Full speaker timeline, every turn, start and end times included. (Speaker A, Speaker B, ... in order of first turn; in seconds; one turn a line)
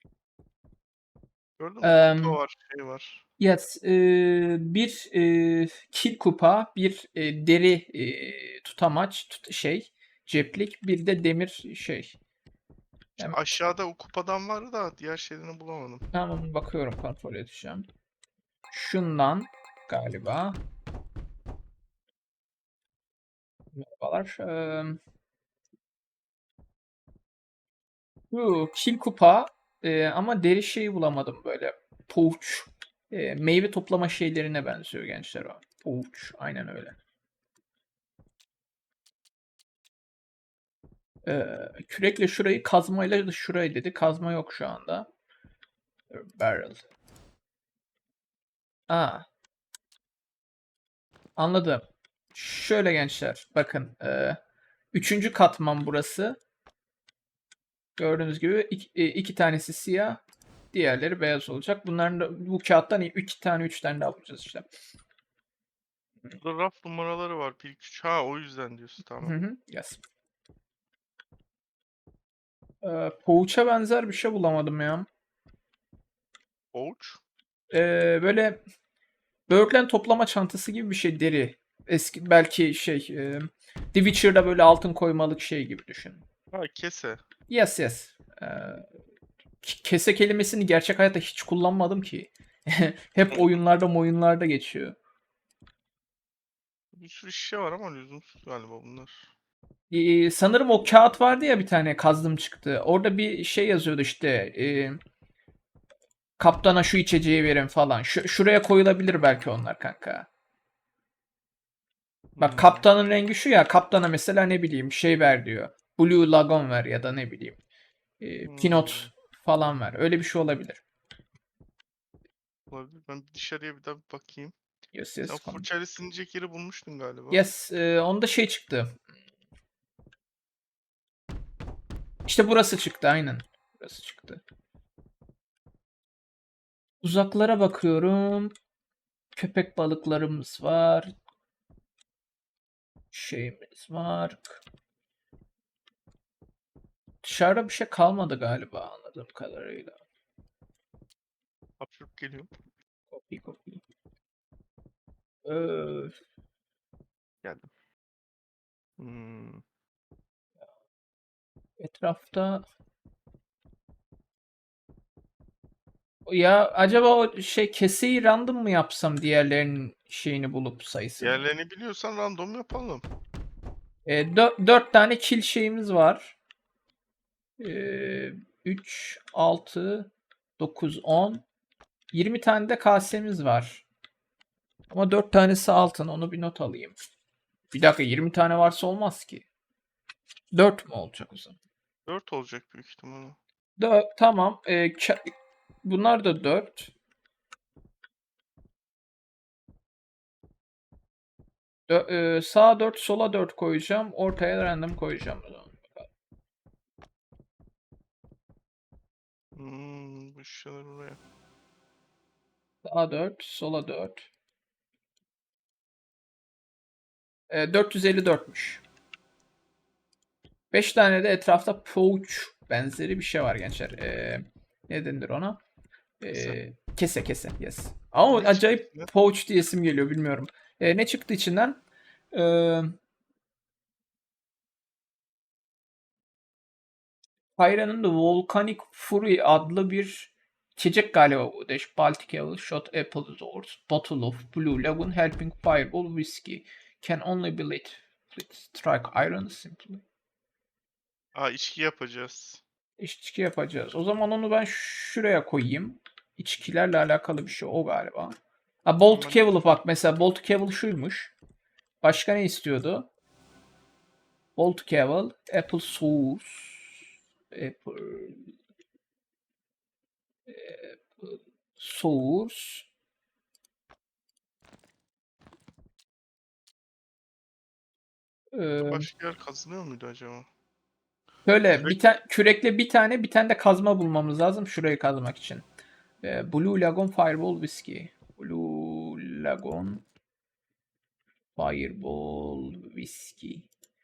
Speaker A: 1.6-3.2
Speaker B: 1.8-2.4
Speaker B: 3.4-12.2
Speaker B: 13.2-13.6
Speaker A: 13.2-16.1
Speaker B: 16.1-17.9
Speaker B: 18.7-20.6
Speaker B: 23.8-25.0
Speaker B: 28.3-37.0
Speaker B: 41.2-45.1
Speaker B: 46.1-46.9
Speaker B: 48.9-49.3
Speaker B: 51.4-54.4
Speaker B: 54.9-56.4
Speaker B: 58.0-60.2
Speaker B: 60.7-64.7
Speaker A: 66.4-69.4
Speaker B: 69.2-70.0
Speaker B: 72.8-75.1
Speaker A: 76.7-77.2
Speaker B: 77.7-78.6
Speaker B: 79.5-86.2
Speaker A: 86.5-87.2
Speaker B: 87.5-88.9
Speaker B: 89.6-95.0
Speaker A: 96.9-99.3
Speaker B: 99.9-105.0
Speaker B: 106.4-110.3
Speaker A: 112.3-112.9
Speaker B: 112.4-117.6
Speaker B: 118.2-120.8
Speaker A: 118.4-119.1
Speaker A: 122.7-124.5
Speaker B: 124.9-125.7
Speaker A: 125.3-127.4
Speaker B: 127.3-129.0
Speaker B: 132.3-134.4
Speaker B: 137.0-138.5
Speaker B: 139.4-141.1
Speaker B: 143.1-144.6
Speaker B: 147.2-150.0
Speaker A: 151.8-152.5
Speaker B: 153.1-153.8
Speaker B: 155.4-156.1
Speaker A: 157.4-157.7
Speaker A: 159.0-159.6
Speaker B: 161.8-162.6
Speaker B: 166.3-171.5
Speaker A: 171.2-173.1
Speaker B: 174.1-176.4
Speaker B: 177.6-181.4
Speaker B: 182.1-183.8
Speaker B: 184.9-187.0
Speaker B: 187.7-189.5
Speaker B: 190.5-191.6
Speaker A: 192.1-193.4
Speaker B: 193.8-195.3
Speaker B: 195.8-196.9
Speaker B: 201.9-206.1
Speaker A: 209.6-211.2
Speaker B: 212.8-214.3
Speaker B: 217.5-218.8
Speaker B: 220.7-225.6
Speaker B: 226.2-232.9
Speaker A: 226.3-226.6
Speaker A: 228.3-229.1
Speaker B: 237.6-250.0
Speaker A: 251.3-252.6
Speaker B: 253.0-261.3
Speaker A: 259.1-259.6
Speaker B: 262.0-263.1
Speaker B: 264.6-268.5
Speaker B: 270.5-272.9
Speaker B: 278.5-279.1
Speaker A: 278.8-280.5
Speaker B: 281.5-285.7
Speaker B: 286.2-290.1
Speaker B: 291.6-293.7